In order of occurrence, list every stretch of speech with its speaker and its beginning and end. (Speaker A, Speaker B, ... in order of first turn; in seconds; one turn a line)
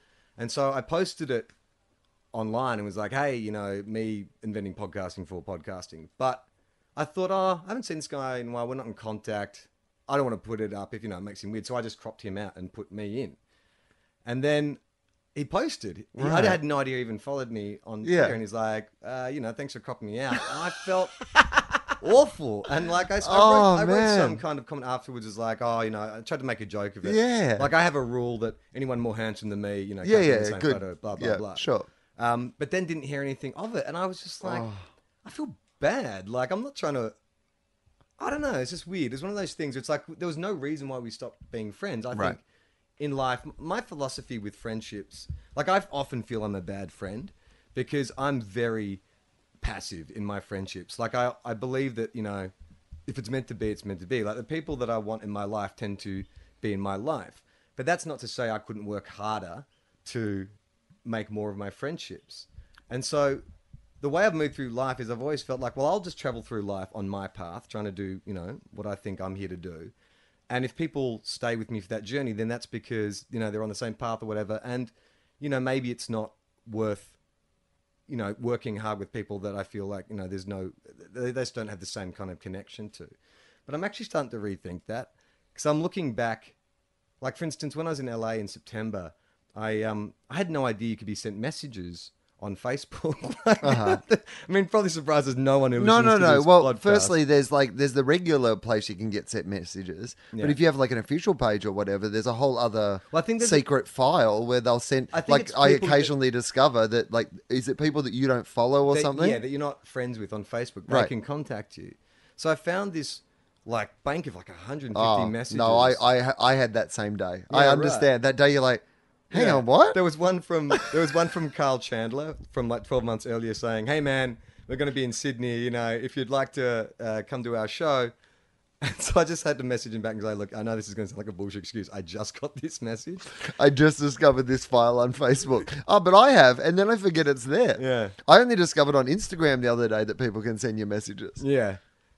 Speaker A: 0.4-1.5
Speaker A: 2.3-13.4
Speaker A: 14.2-14.8
Speaker A: 15.3-21.2
Speaker B: 16.2-16.6
Speaker B: 18.0-18.4
Speaker A: 22.0-31.6
Speaker B: 23.2-24.4
Speaker B: 27.0-27.7
Speaker B: 30.0-31.9
Speaker A: 32.2-34.7
Speaker B: 34.4-34.9
Speaker A: 35.2-37.1
Speaker A: 38.2-42.4
Speaker A: 43.0-49.0
Speaker A: 49.6-52.5
Speaker A: 53.1-60.5
Speaker A: 61.0-63.4
Speaker A: 64.0-69.9
Speaker A: 70.5-77.2
Speaker A: 78.1-83.1
Speaker A: 83.7-86.6
Speaker A: 87.2-97.1
Speaker B: 93.6-94.0
Speaker B: 95.8-109.4
Speaker A: 100.3-100.6
Speaker A: 103.1-103.7
Speaker A: 105.1-106.1
Speaker A: 108.9-116.0
Speaker B: 114.9-120.0
Speaker A: 117.5-118.1
Speaker A: 119.3-128.1
Speaker A: 128.8-133.3
Speaker B: 133.4-141.4
Speaker A: 137.8-138.2
Speaker A: 141.4-141.8